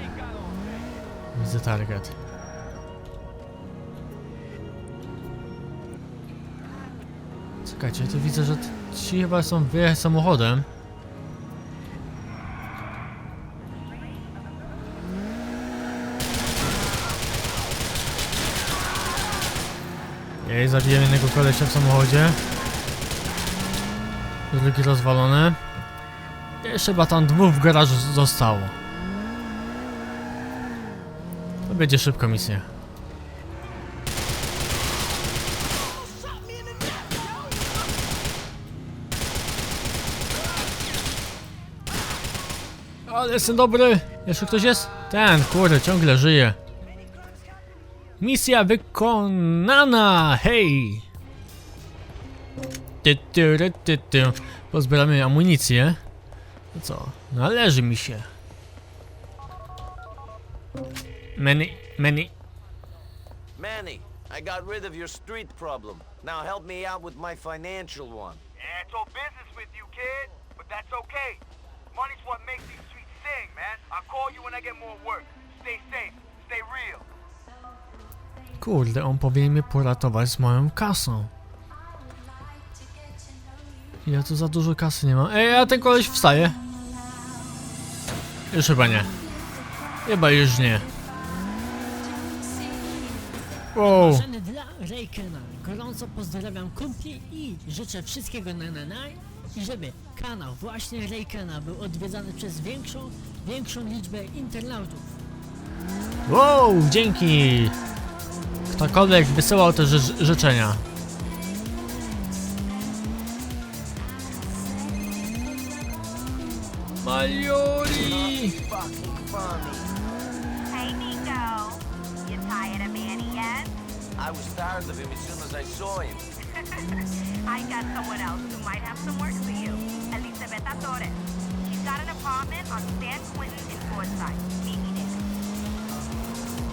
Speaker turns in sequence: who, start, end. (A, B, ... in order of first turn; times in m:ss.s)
0:01.4-0:02.1 A
0:07.6-0:10.7 A
0:20.4-0:22.4 A
0:24.5-0:25.6 A
0:26.6-0:28.8 A
0:31.7-0:32.7 A
0:36.2-0:37.0 B
0:43.1-0:46.6 A
0:48.2-0:51.0 A
0:53.0-0:56.0 A
0:56.7-0:58.3 A
1:01.4-1:02.3 A
1:03.6-1:08.4 C
1:08.6-1:11.4 B
1:12.1-1:16.2 B
1:16.7-1:17.0 B
1:18.6-1:21.3 A
1:24.0-1:26.6 A
1:28.5-1:29.1 A
1:30.1-1:30.9 A
1:32.4-1:45.0 D
1:33.7-1:34.3 A
1:46.3-1:47.8 A
1:48.7-1:50.8 A
1:57.0-1:58.6 A
1:57.9-2:00.0 C
2:00.7-2:03.7 E
2:04.2-2:06.3 C
2:06.5-2:15.2 E